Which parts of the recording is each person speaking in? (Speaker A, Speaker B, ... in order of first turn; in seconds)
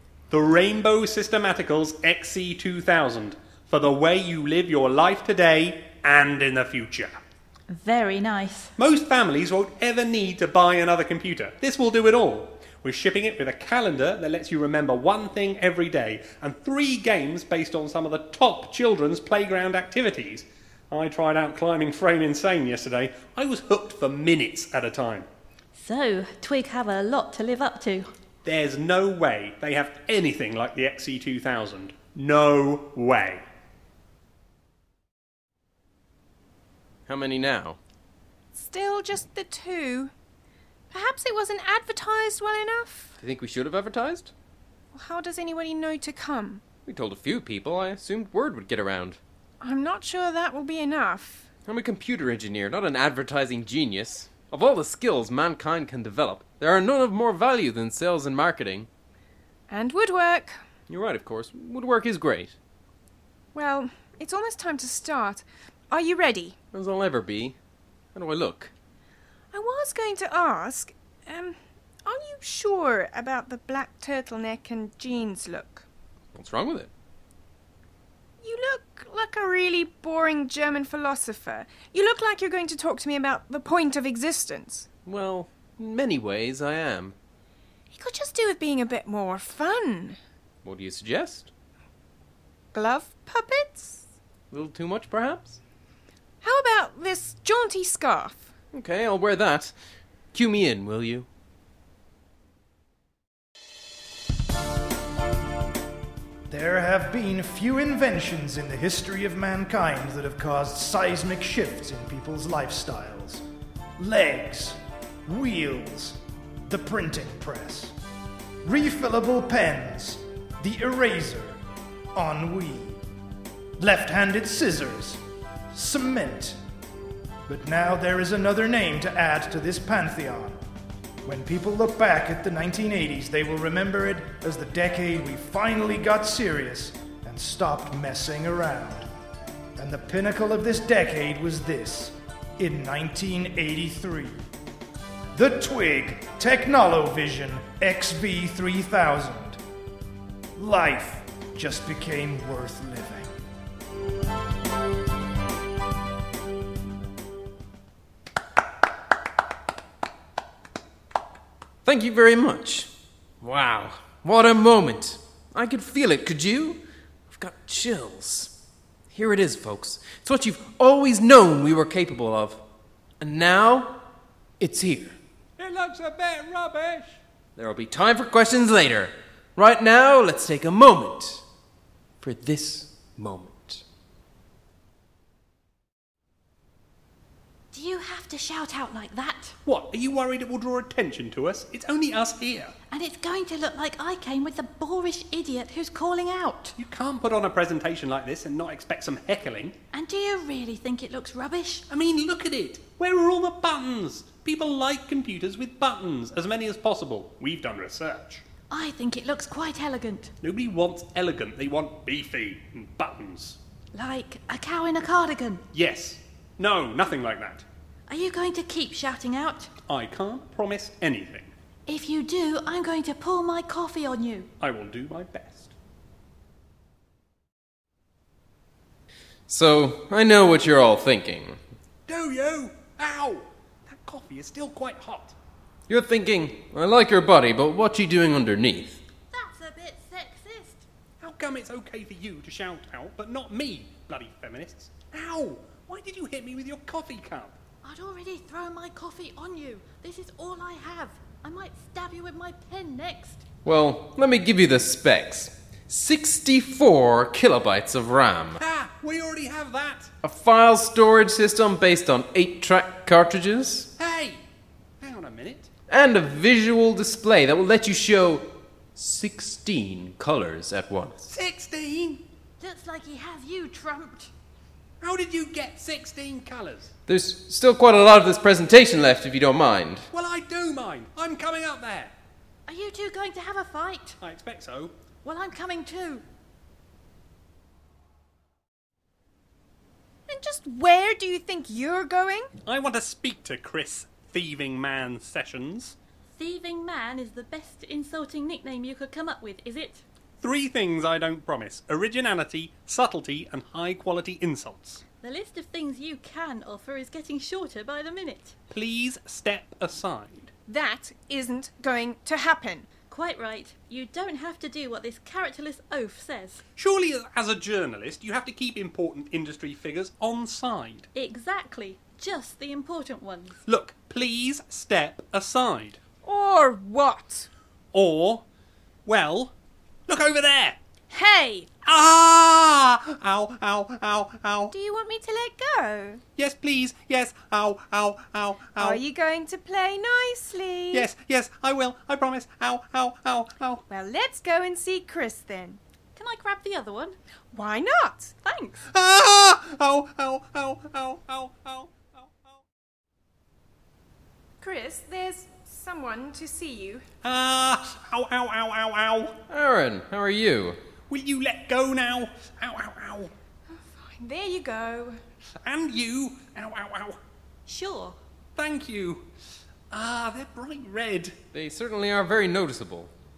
Speaker A: 0.3-7.2, 8.8-25.3, 28.4-33.4, 175.6-177.2, 189.6-192.7, 196.8-199.7, 201.9-208.4, 210.4-213.6, 215.7-217.7, 219.9-221.5, 224.6-225.7, 232.1-235.3, 241.2-247.5, 258.6-260.1, 264.0-264.4, 265.0-265.7, 271.2-272.2, 275.0-276.9, 280.1-282.1, 284.2-284.9, 292.6-295.9, 300.4-305.0, 308.7-310.5, 316.8-321.1, 323.6-326.0, 327.9-328.4, 329.1-329.5, 330.1-330.8, 331.8-334.7, 336.4-339.0, 340.9-343.8, 348.8-352.1, 357.2-359.4, 361.1-363.3, 365.6-367.2, 368.6-369.3, 369.9-371.4
Speaker B: 7.7-8.7, 25.8-28.1, 187.7-189.5, 192.9-196.7, 199.9-201.8, 208.7-210.3, 213.9-215.6, 218.1-219.7, 221.9-224.5, 239.4-240.8, 247.9-253.4, 272.6-274.3, 282.7-284.2, 285.2-286.2, 296.4-300.0, 305.2-308.5, 313.1-316.6, 321.1-323.6, 346.1-347.1, 348.4-348.8, 367.7-368.2
Speaker C: 37.1-37.8, 43.2-44.3, 46.9-49.2, 51.6-58.9, 60.9-62.5, 66.7-67.6, 68.1-68.7, 76.3-76.9, 85.0-87.2, 90.6-91.5, 94.5-95.6, 98.7-99.7, 100.3-101.3, 161.8-168.5, 169.1-172.6, 173.2-174.0, 174.6-175.2, 177.6-181.4, 182.2-183.8, 229.5-231.6, 235.9-239.0, 253.6-258.6, 260.2-263.9, 265.9-271.3, 277.1-280.1, 359.5-360.8, 371.5-373.1
Speaker D: 38.5-40.1, 40.9-43.2, 44.9-46.6, 49.6-51.5, 59.7-60.6, 63.5-66.5, 69.5-75.8, 78.4-84.9, 87.9-90.2, 92.7-94.0, 96.4-98.5, 290.3-292.5, 310.7-312.9, 326.2-327.5, 331.1-331.8, 334.7-336.2, 338.8-341.1, 343.9-345.8, 347.5-348.3, 354.6-357.0, 363.7-365.2
Speaker E: 106.5-113.4, 114.0-117.9, 118.6-121.6, 122.1-123.0, 123.8-125.2, 125.7-126.6, 127.5-130.6, 131.2-139.1, 139.8-144.3, 145.3-149.6, 150.6-153.3